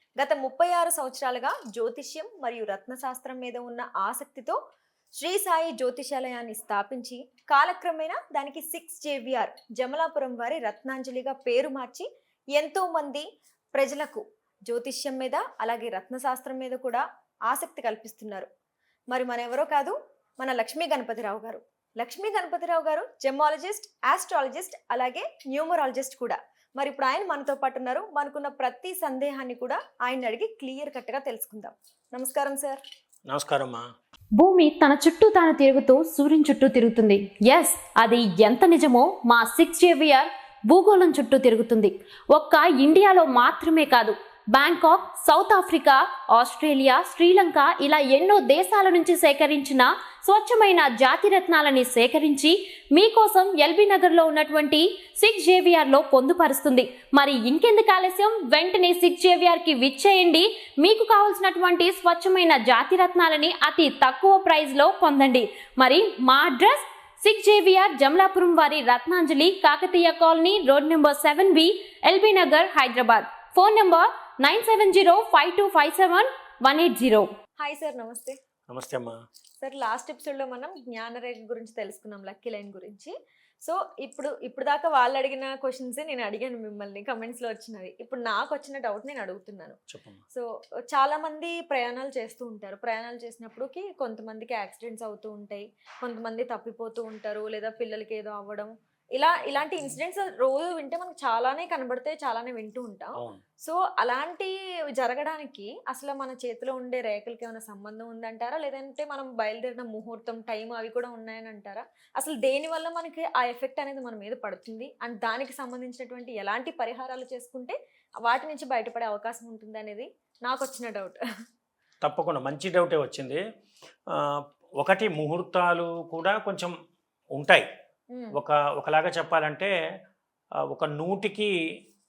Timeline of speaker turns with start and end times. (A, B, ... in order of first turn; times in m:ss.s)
0:00.2-0:04.6 A
0:05.2-0:18.5 A
0:19.1-0:32.8 A
0:33.3-0:33.9 B
0:34.4-1:17.3 C
1:17.6-1:18.4 A
1:18.7-1:19.2 B
1:19.6-1:23.1 A
1:23.6-1:29.8 A
1:29.9-1:30.2 B
1:30.3-2:01.2 A
1:43.2-1:43.4 B
2:02.0-2:03.4 B
2:04.1-2:06.7 B
2:07.4-2:07.7 B
2:08.3-2:09.7 B
2:10.7-2:11.5 B